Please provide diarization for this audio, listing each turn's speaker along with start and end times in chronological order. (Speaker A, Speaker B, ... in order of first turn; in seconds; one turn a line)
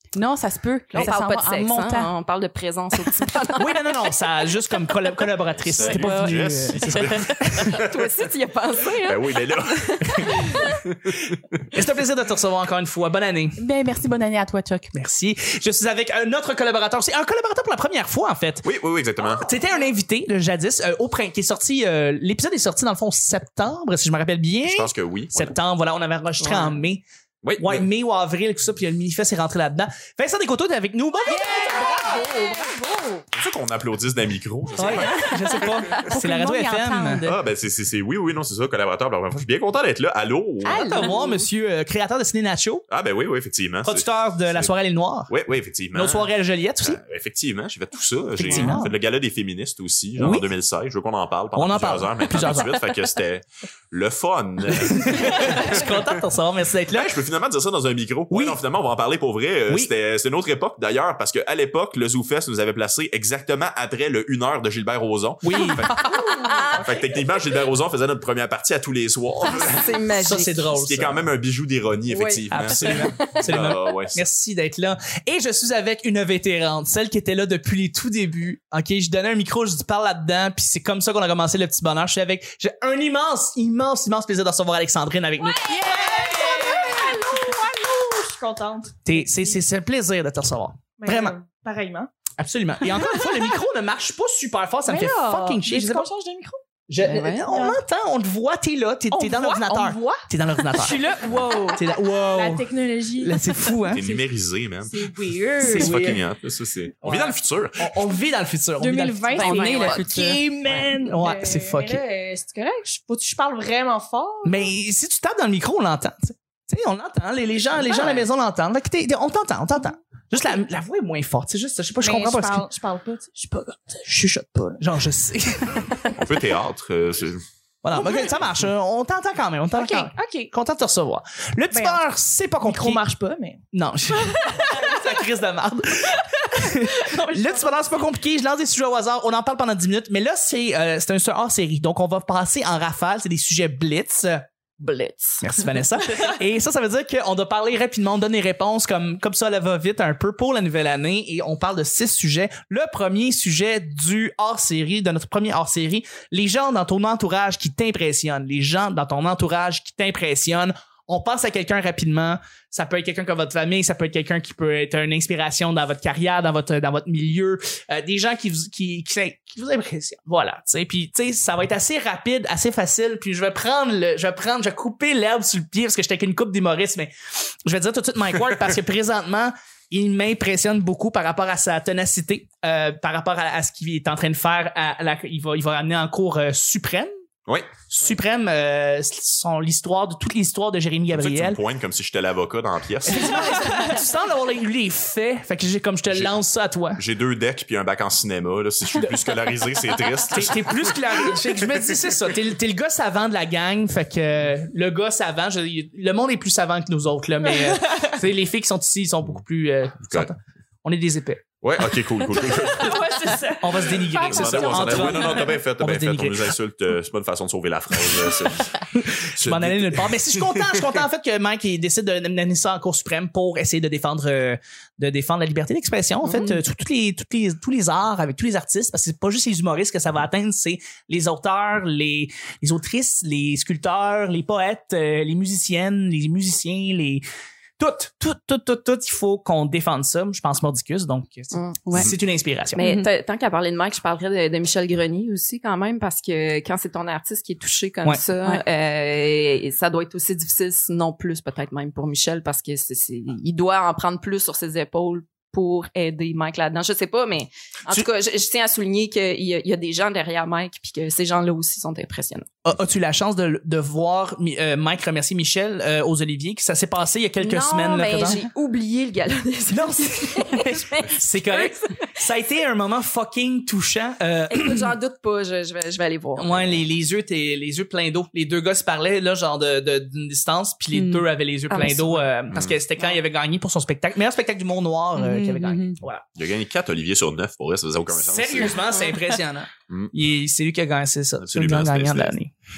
Speaker A: 0.1-2.1
Speaker B: 0.9-4.1
Speaker C: 3.5-7.7
Speaker D: 5.6-8.1
Speaker A: 5.9-6.2
Speaker B: 7.5-10.8
Speaker D: 9.0-11.5
Speaker C: 11.7-13.6
Speaker A: 13.6-14.9
Speaker C: 14.9-18.7
Speaker D: 18.6-19.5
Speaker C: 19.3-27.0
Speaker D: 24.6-25.5
Speaker D: 27.4-27.9
Speaker C: 27.6-31.9
Speaker E: 31.3-33.2
Speaker D: 33.3-35.3
Speaker C: 34.8-37.2
Speaker A: 35.9-37.4
Speaker D: 37.2-40.9
Speaker A: 40.6-41.1
Speaker C: 40.7-42.8
Speaker E: 40.8-41.3
Speaker D: 42.9-44.7
Speaker C: 43.8-45.3
Speaker D: 45.3-46.3
Speaker C: 45.9-47.0
Speaker D: 46.8-56.1
Speaker C: 48.4-48.9
Speaker E: 48.5-48.8
Speaker C: 50.2-50.5
Speaker C: 51.5-52.9
Speaker C: 54.7-57.2
Speaker D: 56.9-66.1
Speaker C: 58.3-58.6
Speaker C: 65.4-65.9
Speaker B: 65.9-67.1
Speaker E: 66.1-66.6
Speaker D: 66.8-69.9
Speaker B: 69.5-70.7
Speaker C: 70.1-71.2
Speaker D: 70.7-74.2
Speaker B: 72.1-73.9
Speaker C: 72.5-87.0
Speaker E: 85.4-89.6
Speaker C: 89.0-91.3
Speaker E: 91.0-92.1
Speaker C: 92.4-96.1
Speaker E: 92.9-93.5
Speaker E: 94.8-96.6
Speaker C: 96.9-101.2
Speaker B: 97.0-97.7
Speaker E: 97.5-97.8
Speaker E: 99.1-104.2
Speaker C: 101.7-102.7
Speaker C: 103.2-104.0
Speaker D: 103.9-105.0
Speaker E: 104.8-106.2
Speaker C: 105.6-106.2
Speaker D: 105.6-107.9
Speaker C: 107.0-109.5
Speaker E: 108.8-114.7
Speaker A: 109.3-110.4
Speaker B: 109.3-110.0
Speaker C: 110.6-112.0
Speaker C: 114.4-122.7
Speaker E: 117.8-118.2
Speaker E: 122.0-124.8
Speaker C: 124.8-125.8
Speaker E: 125.7-126.2
Speaker D: 126.2-127.4
Speaker C: 127.8-133.0
Speaker E: 129.7-130.5
Speaker E: 131.7-132.0
Speaker E: 132.6-135.2
Speaker C: 133.7-144.5
Speaker E: 136.2-137.8
Speaker B: 144.8-145.5
Speaker C: 145.4-187.1
Speaker D: 187.5-187.7
Speaker C: 187.8-191.6
Speaker D: 191.1-193.5
Speaker C: 193.1-197.0
Speaker E: 193.3-194.0
Speaker D: 197.0-201.9
Speaker C: 200.3-211.4
Speaker E: 207.5-208.2
Speaker D: 211.6-213.0
Speaker E: 212.3-214.4
Speaker C: 213.6-216.5
Speaker D: 214.2-220.8
Speaker B: 214.3-215.4
Speaker C: 218.9-237.2
Speaker B: 226.2-226.6
Speaker C: 237.8-242.8
Speaker B: 241.5-241.8
Speaker A: 241.8-242.1
Speaker B: 242.7-262.5
Speaker A: 242.8-243.1
Speaker C: 262.6-268.4
Speaker B: 267.4-272.2
Speaker C: 269.7-274.9
Speaker B: 274.5-276.8
Speaker C: 276.4-286.2
Speaker A: 280.9-282.2
Speaker D: 282.5-282.8
Speaker A: 285.1-286.0
Speaker D: 286.4-288.8
Speaker C: 288.1-292.5
Speaker B: 288.6-289.1
Speaker D: 291.4-292.4